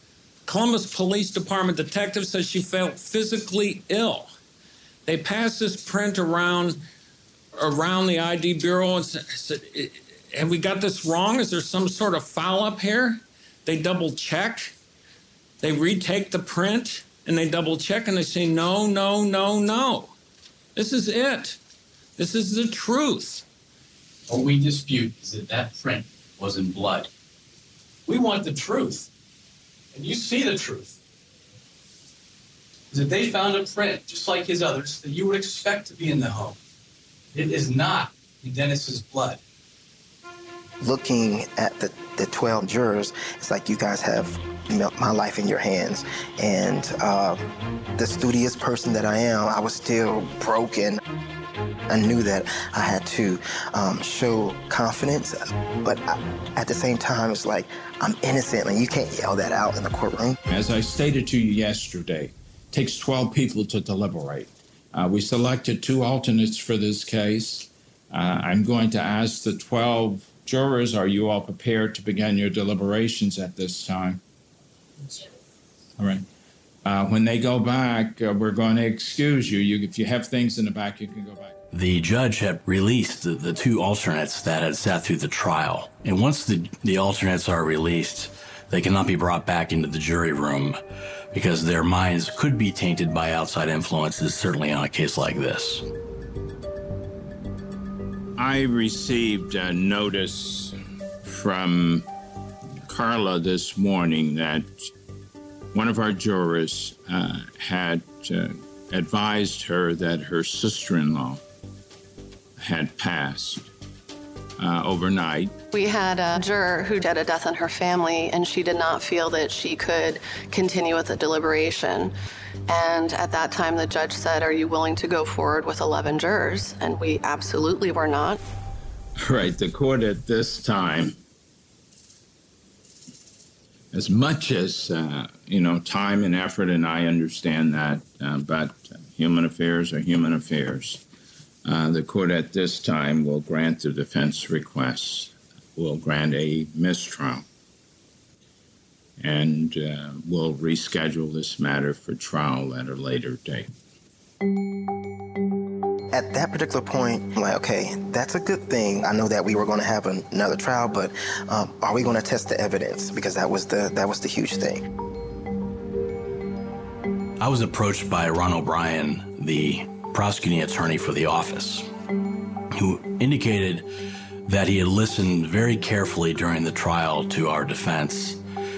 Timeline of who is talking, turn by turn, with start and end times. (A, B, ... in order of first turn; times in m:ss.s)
0:00.4-0:04.3 A
0:05.0-0:06.8 A
0:07.5-0:14.7 A
0:15.6-0:20.1 A
0:20.7-0:21.6 A
0:22.2-0:23.4 A
0:24.3-0:27.1 B
0:28.0-0:29.1 B
0:29.9-0:31.0 B
0:32.9-0:36.6 B
0:37.3-0:39.4 B
0:40.8-0:47.4 C
0:48.0-0:51.0 C
0:51.9-1:00.4 C
1:00.5-1:14.2 D
1:16.8-1:21.5 D
1:21.7-1:30.8 E
1:31.3-1:35.8 E
1:38.4-1:42.1 D
1:42.8-1:44.9 D
1:45.7-1:51.4 D
1:52.6-1:53.7 D
1:54.6-1:55.5 D
1:55.7-2:02.1 F
2:02.7-2:08.4 F
2:09.2-2:11.2 D
2:13.9-2:21.0 D
2:21.6-2:27.4 D
2:29.2-2:33.7 D
2:36.1-2:44.8 C
2:47.4-2:51.9 E
2:52.7-2:53.9 E
2:54.4-2:58.4 E